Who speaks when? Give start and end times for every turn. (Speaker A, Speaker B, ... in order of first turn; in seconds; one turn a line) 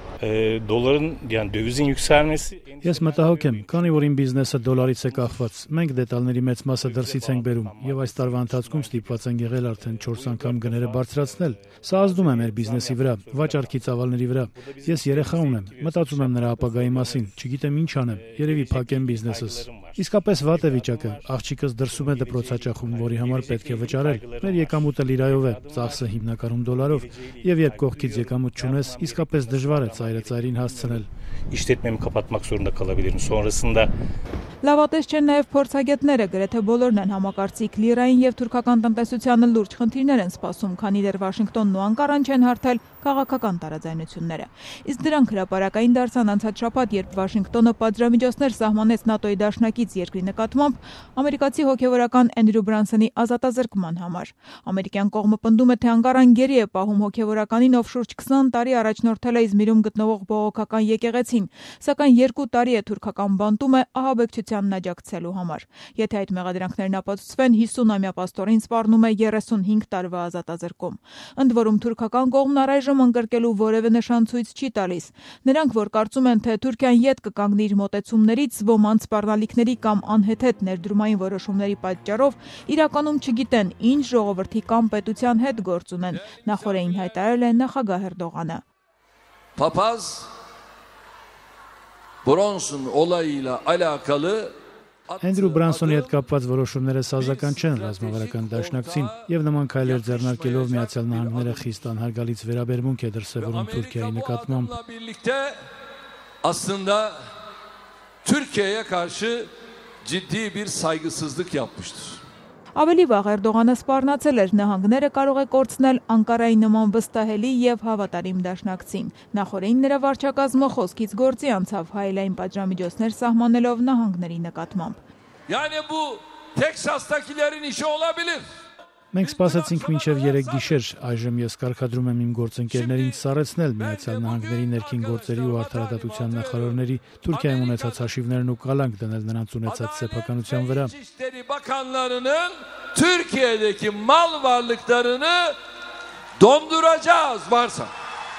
Speaker A: 0.2-5.4
Speaker B: 2.8-31.1
Speaker A: 6.8-13.8
Speaker A: 14.6-33.9
Speaker C: 34.6-88.6
Speaker D: 86.1-87.2
Speaker D: 89.5-90.3
Speaker D: 92.2-94.5
Speaker D: 95.1-96.1
Speaker B: 95.2-104.7
Speaker D: 97.2-99.3
Speaker D: 99.8-101.8
Speaker D: 103.4-105.6
Speaker D: 106.4-107.1
Speaker D: 108.2-109.5
Speaker D: 110.0-112.2
Speaker C: 112.8-125.0
Speaker D: 125.5-128.4
Speaker B: 129.1-140.9
Speaker D: 129.2-130.8
Speaker D: 132.7-133.2
Speaker D: 133.8-138.1
Speaker D: 139.7-145.5
Speaker D: 146.4-147.9